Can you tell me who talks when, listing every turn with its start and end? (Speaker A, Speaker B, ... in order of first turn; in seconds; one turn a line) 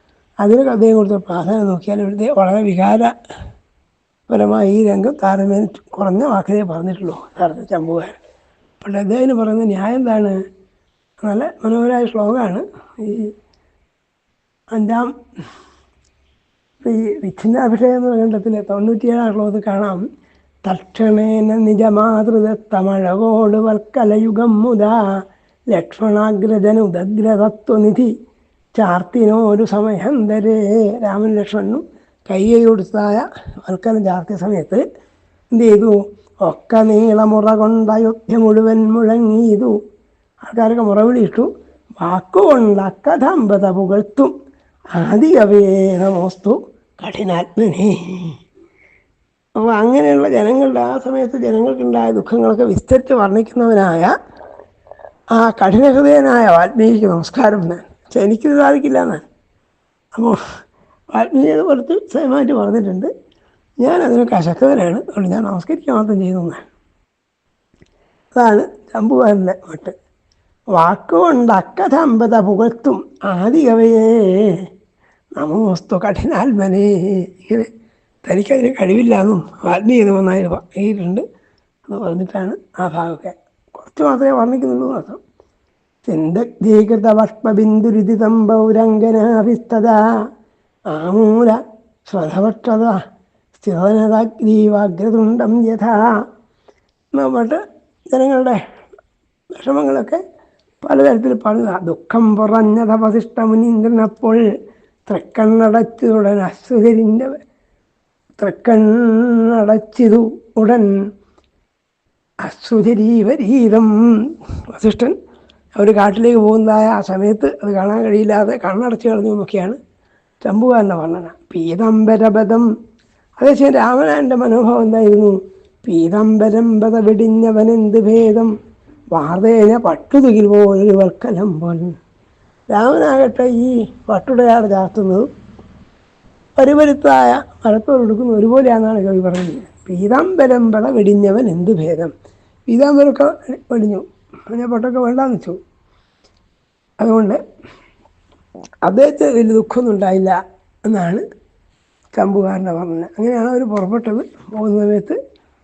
Speaker A: 0.4-3.1
Speaker A: 4.3-8.2
Speaker A: 8.8-10.3
Speaker A: 11.2-13.3
Speaker A: 14.7-15.1
Speaker A: 16.8-20.0
Speaker A: 20.6-25.0
Speaker A: 25.7-28.1
Speaker A: 28.8-34.8
Speaker A: 35.5-39.7
Speaker A: 40.4-41.5
Speaker A: 42.0-44.3
Speaker A: 44.9-48.4
Speaker A: 49.6-54.1
Speaker A: 55.4-59.2
Speaker A: 61.1-63.1
Speaker A: 63.8-66.7
Speaker A: 68.3-69.9
Speaker A: 70.8-74.6
Speaker A: 75.4-77.7
Speaker A: 78.2-81.2
Speaker A: 81.9-85.2
Speaker A: 86.0-90.0
Speaker A: 90.9-93.0
Speaker A: 93.6-96.0
Speaker A: 97.1-97.6
Speaker A: 98.1-98.6
Speaker A: 99.5-100.2
Speaker A: 100.8-104.4
Speaker A: 105.1-107.4
Speaker A: 108.4-110.9
Speaker A: 112.4-115.1
Speaker A: 115.8-119.8
Speaker A: 120.4-122.7
Speaker A: 123.4-128.5
Speaker A: 129.1-131.9
Speaker A: 132.7-135.2
Speaker A: 136.6-142.1
Speaker A: 142.7-145.6
Speaker A: 147.0-147.4
Speaker A: 148.8-150.3
Speaker A: 150.9-151.2
Speaker A: 152.2-155.2